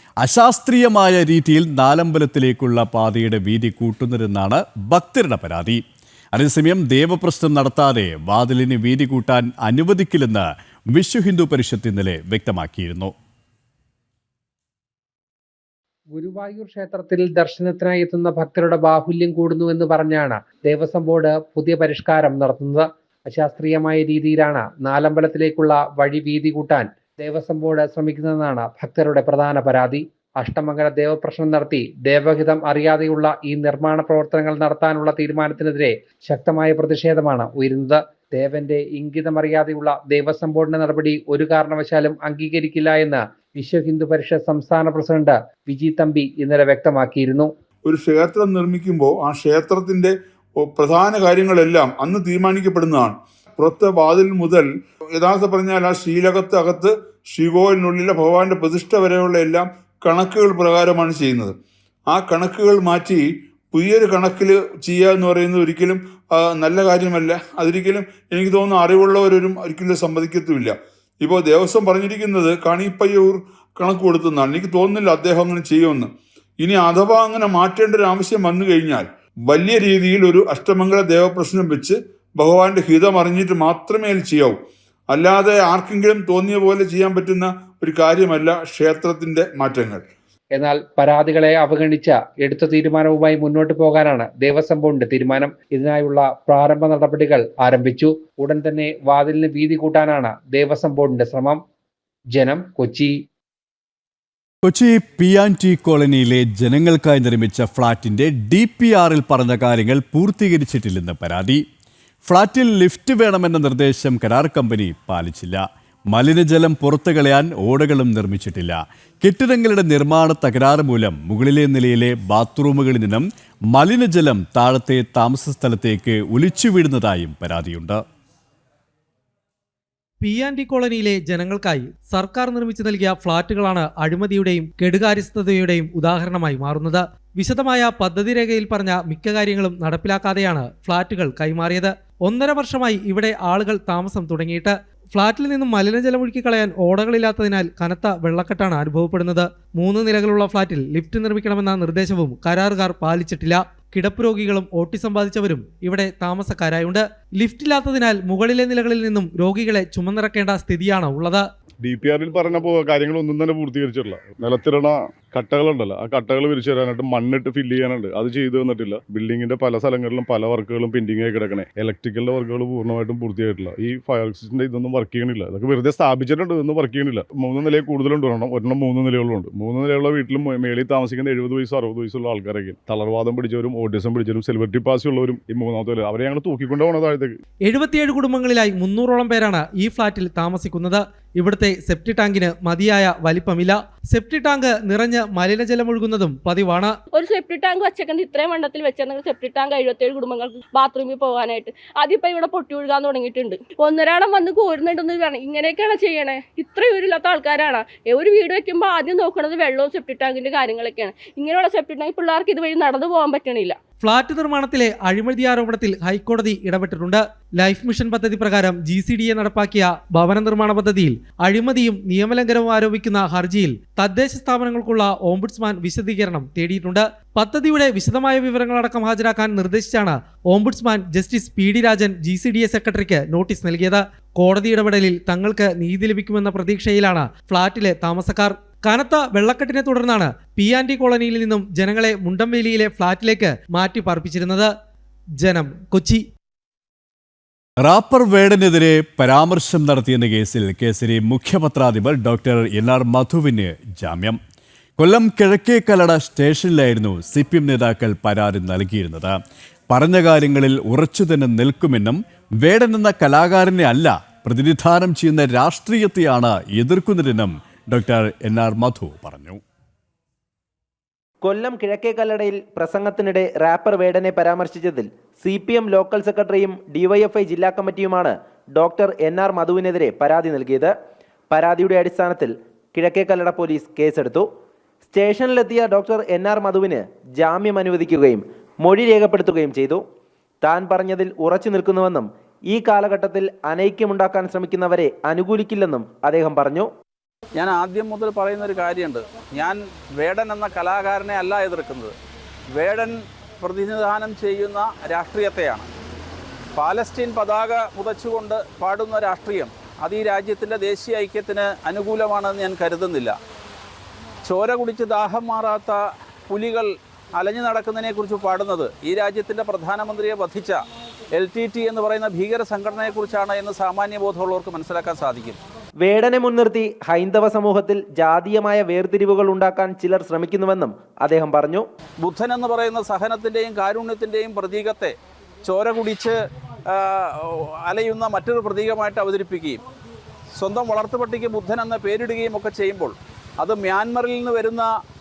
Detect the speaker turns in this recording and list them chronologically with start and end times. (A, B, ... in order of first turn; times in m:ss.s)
0:00.2-0:05.8 A
0:06.3-0:13.1 A
0:16.1-0:47.5 B
0:47.8-1:01.6 C
1:02.1-1:30.0 C
1:30.5-1:41.6 B
1:42.3-1:43.2 B
1:44.6-1:51.6 A
1:52.2-2:08.0 A
2:10.2-2:41.4 D
2:41.8-3:07.4 E
3:07.6-3:16.9 D
3:17.1-3:33.8 F
3:34.0-4:04.7 D
4:05.4-4:06.2 D
4:07.8-4:14.4 A
4:15.0-4:19.4 A
4:19.9-4:29.6 A
4:31.4-4:40.9 G
4:41.5-4:44.5 G
4:45.1-4:50.0 G
4:50.6-4:56.9 G
4:57.6-5:02.2 H
5:02.8-5:05.9 H
5:06.8-5:13.3 H
5:14.4-5:20.8 H
5:21.3-5:25.6 H
5:26.0-5:31.8 G
5:32.2-5:36.3 H
5:36.9-5:39.8 H
5:40.6-5:44.9 H